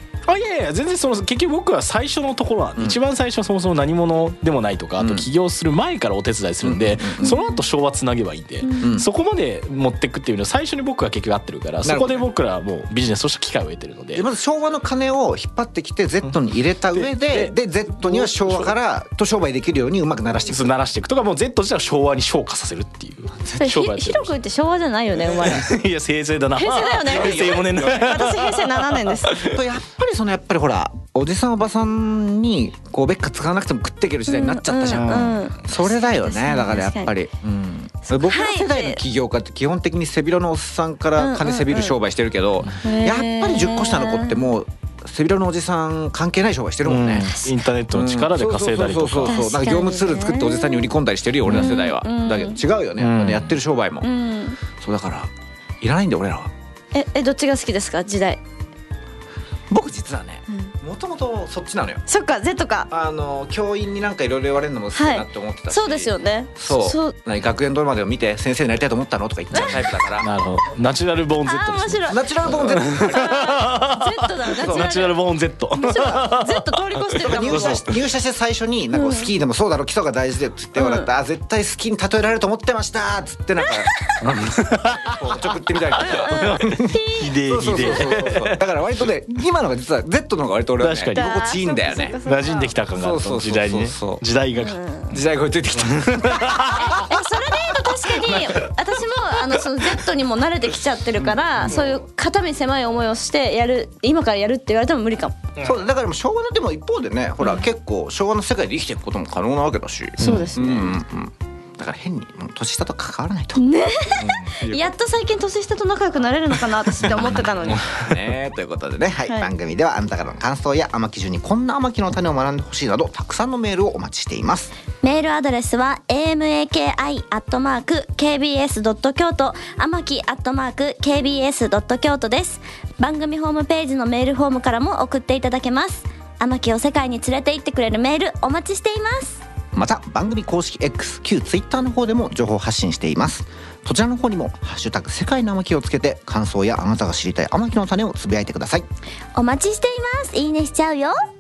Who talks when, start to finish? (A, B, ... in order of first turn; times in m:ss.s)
0:00.3-0:14.2 A
0:05.0-0:05.3 B
0:06.6-0:07.4 B
0:07.2-0:07.6 C
0:08.6-0:08.9 C
0:08.8-0:09.1 B
0:11.8-0:12.2 B
0:14.1-0:20.7 B
0:16.9-0:18.8 A
0:20.5-0:24.3 A
0:23.6-0:25.7 C
0:25.2-0:29.6 A
0:26.6-0:29.4 C
0:27.1-0:28.3 B
0:29.4-0:47.3 B
0:34.3-0:37.1 C
0:34.9-0:35.4 A
0:38.1-0:39.0 C
0:41.2-0:42.0 C
0:42.8-0:44.5 C
0:46.8-0:49.4 A
0:47.2-0:47.5 C
0:47.9-0:54.1 B
0:49.3-0:50.9 C
0:51.5-0:51.7 A
0:51.5-0:52.6 C
0:53.0-0:53.5 A
0:54.0-0:54.6 C
0:54.8-0:56.5 B
0:56.9-0:58.4 C
0:59.7-1:02.0 B
1:02.1-1:02.9 C
1:02.9-1:10.3 B
1:05.0-1:07.1 C
1:09.5-1:10.0 C
1:10.2-1:16.8 A
1:11.4-1:15.2 C
1:12.1-1:13.6 B
1:14.6-1:14.9 B
1:15.8-1:17.9 C
1:17.2-1:23.9 B
1:17.4-1:17.8 A
1:18.9-1:19.3 C
1:20.8-1:21.1 C
1:23.6-1:24.1 C
1:24.2-1:25.2 A
1:24.8-1:32.2 B
1:25.9-1:27.4 C
1:26.2-1:28.6 A
1:30.8-1:31.4 A
1:31.2-1:32.8 C
1:32.2-1:34.8 A
1:33.0-1:34.2 B
1:34.6-1:35.2 C
1:35.1-1:38.4 B
1:35.8-1:37.1 A
1:36.6-1:45.4 C
1:41.2-1:41.8 B
1:45.6-1:53.6 B
1:50.2-1:51.0 C
1:50.2-1:50.5 A
1:53.6-1:57.9 C
1:54.2-1:54.9 B
1:57.0-2:04.7 B
1:59.2-1:59.5 C
2:05.0-2:19.4 C
2:19.7-2:28.9 B
2:29.4-2:31.2 C